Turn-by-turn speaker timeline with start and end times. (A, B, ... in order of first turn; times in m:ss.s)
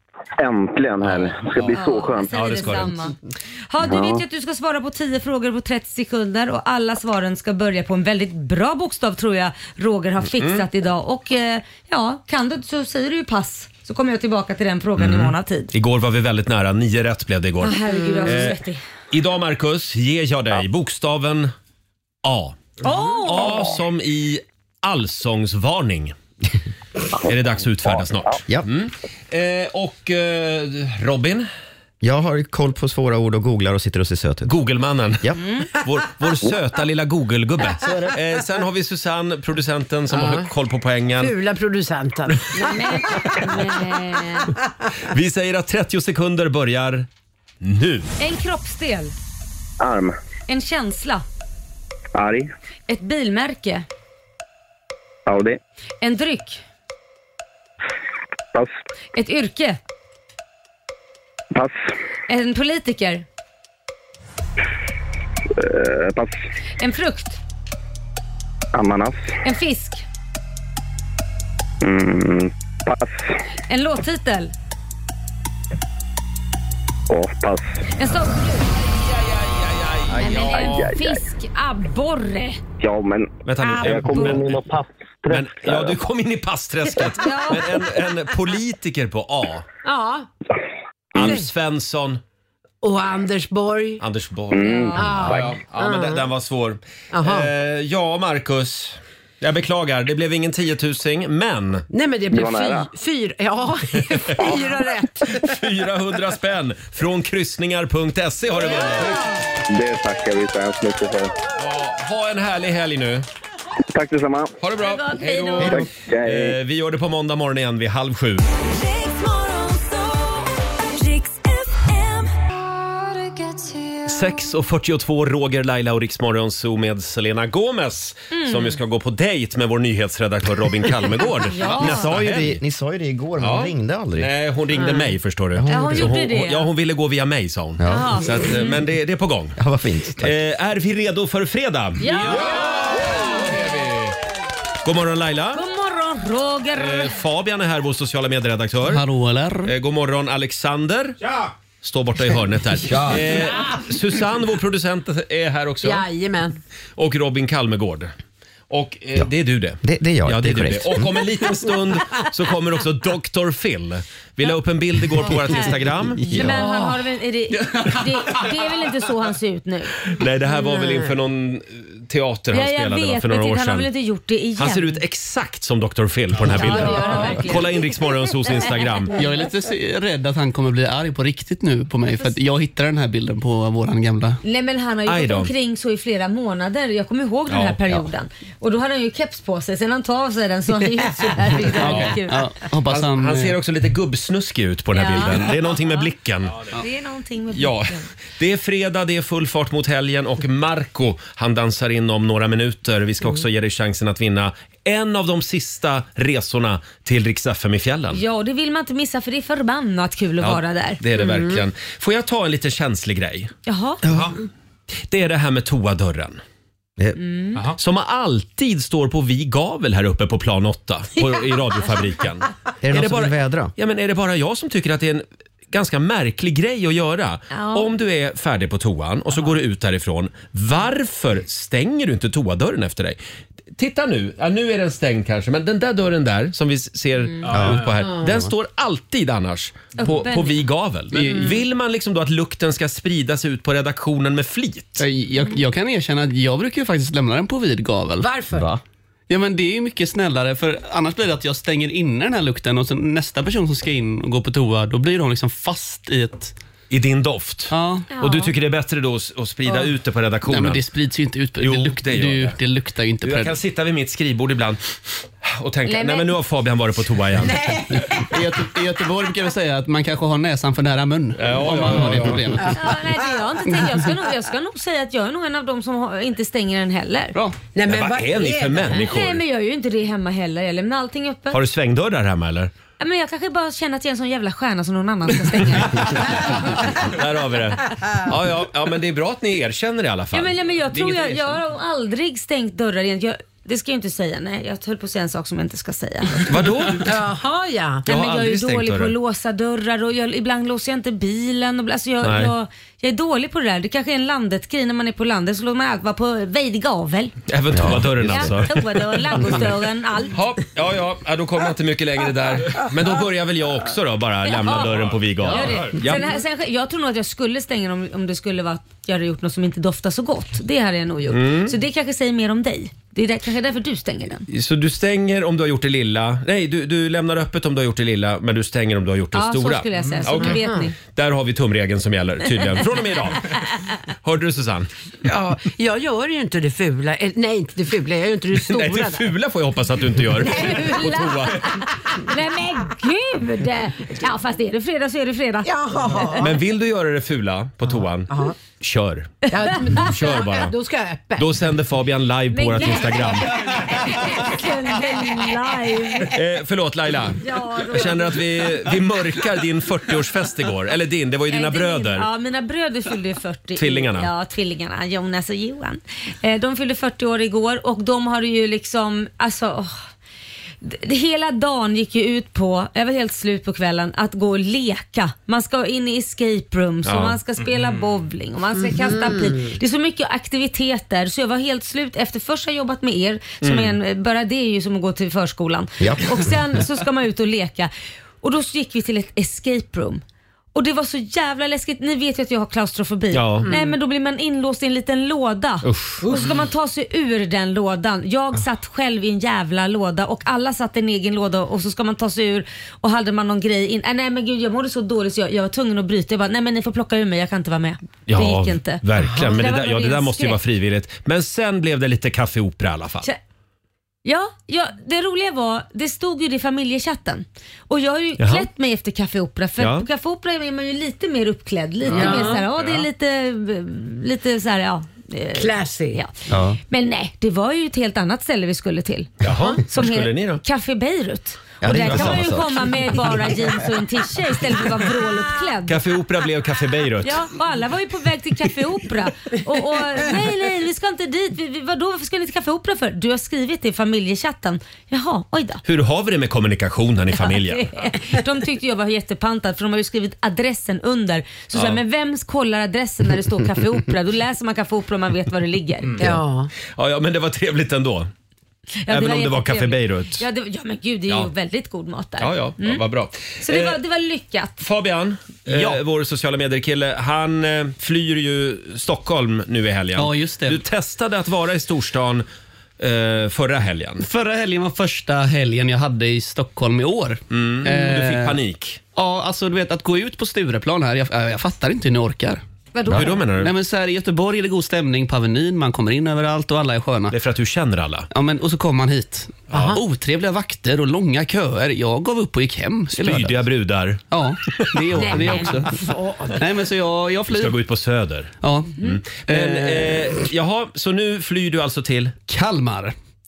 0:00.4-0:02.3 A
0:01.0-0:01.3 B
0:01.7-0:03.1 C
0:02.3-0:03.1 B
0:03.7-0:15.7 C
0:03.8-0:04.2 A
0:10.3-0:10.6 B
0:15.0-0:18.6 B
0:17.6-0:18.8 C
0:19.1-0:21.5 B
0:22.2-0:22.7 B
0:22.8-0:23.7 C
0:23.2-0:26.2 B
0:27.2-0:31.5 B
0:32.0-0:34.5 D
0:34.5-0:41.4 B
0:37.8-0:38.1 D
0:40.1-0:40.5 E
0:41.2-0:42.8 E
0:42.5-0:44.5 C
0:45.1-0:47.1 B
0:47.6-0:48.1 B
0:48.2-0:49.2 C
0:49.8-0:50.2 A
0:50.5-0:51.2 C
0:52.2-0:52.5 A
0:52.9-0:53.9 C
0:55.3-0:55.6 A
0:56.0-0:56.6 C
0:59.2-0:59.8 C
1:01.5-1:01.9 A
1:02.3-1:03.2 C
1:05.6-1:06.4 A
1:06.8-1:07.4 C
1:08.7-1:09.4 A
1:09.4-1:10.0 C
1:11.8-1:13.4 A
1:13.7-1:14.5 C
1:17.1-1:17.8 A
1:18.0-1:18.7 C
1:19.0-1:20.9 B
1:20.2-1:20.5 D
1:20.2-1:22.6 C
1:20.3-1:21.2 A
1:22.8-1:25.9 A
1:23.5-1:24.6 B
1:23.6-1:24.5 C
1:25.3-1:29.7 B
1:27.1-1:27.6 C
1:29.8-1:30.3 E
1:31.1-1:32.2 B
1:31.2-1:31.4 E
1:32.8-1:34.0 E
1:34.0-1:41.8 B
1:34.5-1:35.4 A
1:34.6-1:35.3 C
1:35.0-1:36.2 E
1:37.1-1:37.5 E
1:41.9-1:45.3 E
1:42.3-1:42.9 A
1:45.3-1:49.2 B
1:48.7-1:49.3 C
1:49.7-1:51.3 A
1:51.6-1:53.3 B
1:53.9-1:54.5 A
1:54.6-1:58.5 B
1:54.8-1:55.8 C
1:55.6-1:56.5 A
1:55.6-1:55.9 D
1:58.7-2:02.3 F
2:03.3-2:04.0 F
2:04.1-2:12.6 B
2:08.3-2:08.8 C
2:11.5-2:12.1 C
2:11.7-2:14.3 D
2:13.4-2:19.6 B
2:14.8-2:15.1 E
2:15.6-2:16.2 D
2:15.7-2:16.6 C
2:17.8-2:18.4 D
2:17.9-2:18.8 C
2:19.6-2:20.4 D
2:20.2-2:24.2 B
2:22.0-2:23.0 C
2:22.1-2:22.6 E
2:24.8-2:25.6 B
2:25.6-2:27.1 C
2:26.8-2:29.0 B
2:28.9-2:29.7 G
2:29.6-2:31.2 B
2:31.8-2:36.1 B
2:32.9-2:33.2 D
2:35.8-2:36.6 E
2:37.0-2:38.1 B
2:38.7-2:46.7 B
2:39.8-2:41.2 D
2:45.3-2:46.6 D
2:45.4-2:45.7 C
2:46.3-2:49.9 C
2:50.1-2:53.9 B
2:50.7-2:51.0 E
2:52.5-2:55.0 C
2:54.6-2:59.1 B
2:56.5-2:57.7 C
2:57.0-2:57.4 E
2:58.5-2:58.9 C
2:59.2-3:04.4 G
3:04.4-3:12.5 C
3:05.1-3:05.5 B
3:07.5-3:08.1 B
3:11.7-3:13.6 G
3:11.7-3:12.1 B
3:12.9-3:16.6 B
3:14.9-3:16.0 C
3:16.7-3:18.0 C
3:17.5-3:28.2 B
3:28.1-3:31.0 C
3:30.4-3:33.5 B
3:31.2-3:31.6 E
3:33.7-3:34.0 C
3:35.1-3:36.4 B
3:37.2-3:37.6 C
3:37.8-3:53.2 B
3:42.8-3:43.7 D
3:47.5-3:47.9 C
3:53.8-4:05.0 B
3:57.5-3:57.8 D
3:58.0-3:58.4 E
4:00.0-4:00.6 C
4:01.1-4:01.6 G
4:05.0-4:08.3 G
4:08.2-4:08.7 E
4:08.5-4:08.8 D
4:09.3-4:16.5 G
4:16.9-4:20.8 B
4:17.7-4:18.1 G
4:18.1-4:18.5 C
4:20.5-4:23.5 G
4:21.6-4:22.6 B
4:23.2-4:24.8 B
4:25.4-4:27.7 B
4:25.9-4:26.3 C
4:27.4-4:28.2 E
4:28.2-4:32.8 G
4:31.4-4:32.6 B
4:32.8-4:37.4 C
4:37.3-4:37.6 G
4:37.7-4:39.0 E
4:37.8-4:39.4 B
4:38.9-4:41.6 C
4:41.5-4:42.7 B
4:43.0-4:46.2 C
4:45.9-4:50.5 B
4:50.3-4:56.4 C
4:50.9-4:51.6 G
4:56.5-4:57.1 B
4:57.0-4:58.1 E
4:58.1-5:07.4 C
4:58.1-4:59.2 B
5:02.2-5:02.5 B
5:07.5-5:09.6 B
5:07.7-5:08.4 D
5:08.3-5:10.4 C
5:10.3-5:16.4 B
5:14.5-5:24.5 C
5:21.3-5:21.7 B
5:24.5-5:33.5 B
5:29.3-5:31.0 C
5:30.4-5:30.9 E
5:34.2-5:34.9 B
5:35.2-5:39.3 E
5:38.5-5:41.8 B
5:40.4-5:41.1 E
5:40.7-5:41.3 C
5:42.2-5:45.7 C
5:45.6-5:46.6 E
5:46.4-5:50.8 B
5:47.9-5:48.6 E
5:49.5-5:51.5 E
5:51.4-5:53.5 B
5:52.5-5:56.3 C
5:56.3-6:02.3 B
5:57.4-5:58.5 C
6:01.5-6:09.9 C
6:03.8-6:04.3 B
6:10.8-6:27.9 C
6:17.0-6:17.4 B
6:18.9-6:19.6 E
6:23.6-6:24.0 B
6:26.0-6:26.4 D
6:28.4-6:30.2 C
6:30.8-6:50.6 C
6:33.3-6:33.7 B
6:33.7-6:33.9 E
6:35.8-6:36.2 B
6:48.3-6:53.3 B
6:54.2-7:06.3 C
6:58.4-6:58.7 B
6:59.8-7:00.1 B
7:02.1-7:02.7 E
7:02.2-7:02.4 B
7:05.5-7:06.2 E
7:06.5-7:06.8 D
7:06.9-7:16.0 C
7:09.4-7:10.6 B
7:09.5-7:09.8 E
7:11.8-7:12.9 D
7:15.9-7:17.4 B
7:17.2-7:25.8 C
7:25.8-7:27.9 B
7:27.4-7:36.3 C
7:31.7-7:32.0 B
7:36.2-7:36.7 E
7:37.0-7:38.3 B
7:39.0-7:43.0 C
7:39.1-7:40.4 B
7:42.4-7:44.0 B
7:43.6-7:44.8 C
7:44.8-7:52.5 B
7:45.7-7:46.0 G
7:50.2-7:50.8 G
7:53.0-7:54.2 B
7:54.2-7:58.6 G
7:57.5-7:59.0 B
7:59.2-8:07.4 G
8:03.0-8:03.3 C
8:03.1-8:03.7 B
8:07.3-8:08.3 B
8:08.3-8:13.6 G
8:09.7-8:10.0 B
8:09.7-8:10.0 E
8:13.2-8:14.2 B
8:14.3-8:17.8 G
8:14.8-8:15.7 B
8:15.3-8:15.7 C
8:17.5-8:22.4 B
8:18.6-8:18.9 G
8:19.5-8:20.3 G
8:22.5-8:23.1 G